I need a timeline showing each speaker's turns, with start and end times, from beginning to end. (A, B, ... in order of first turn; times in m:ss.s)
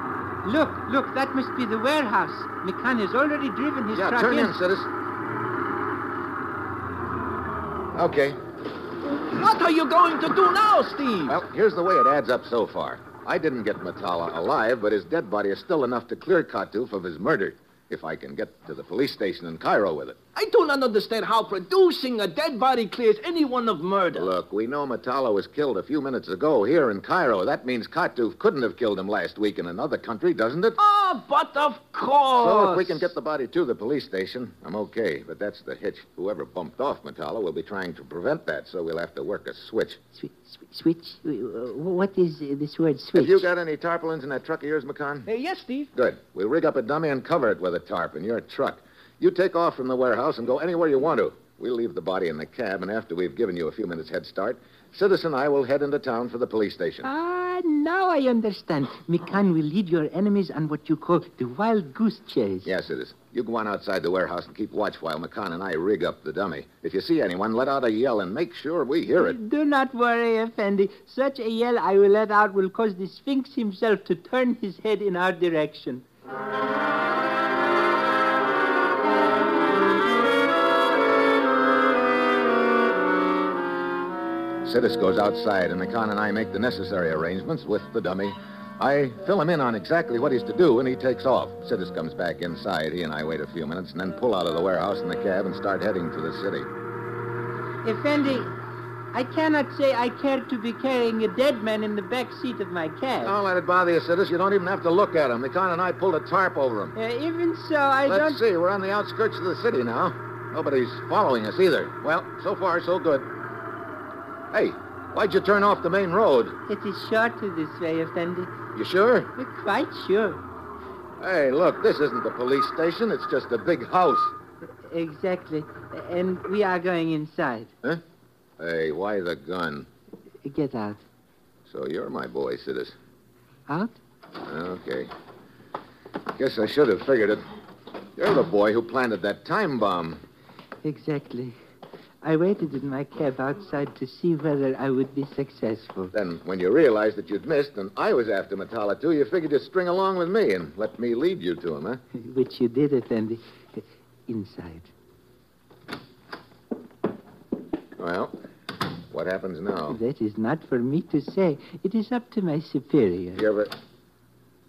0:00.4-0:04.5 A
0:03.9-0:04.9 B
0:07.9-0:08.4 B
0:09.2-0:11.3 C
0:11.3-0:20.2 B
0:20.3-0:24.3 C
0:24.1-0:30.8 B
0:30.8-0:33.1 C
0:32.4-0:40.0 B
0:40.1-0:43.5 A
0:43.1-0:45.3 B
0:45.2-0:45.9 C
0:45.9-0:57.1 B
0:57.0-1:02.7 A
1:02.6-1:09.4 B
1:09.2-1:16.0 A
1:24.6-1:36.7 B
1:37.8-1:38.5 A
1:39.1-1:43.3 A
1:43.2-1:46.9 B
1:46.9-1:48.4 A
1:48.0-1:53.3 B
1:54.5-1:56.6 B
1:56.7-1:58.5 A
1:58.7-1:59.3 B
1:59.4-2:00.4 A
2:01.2-2:04.3 B
2:04.8-2:07.7 A
2:08.6-2:09.9 B
2:10.4-2:11.0 A
2:11.7-2:13.0 B
2:13.7-2:14.0 A
2:14.4-2:15.1 B
2:16.4-2:17.4 B
2:18.2-2:20.2 B
2:20.8-2:21.6 A
2:22.2-2:26.1 A
2:26.1-2:32.0 B
2:32.1-2:34.9 A
2:38.0-2:38.3 B
2:39.1-2:40.0 B
2:39.9-2:43.4 A
2:43.3-2:43.7 B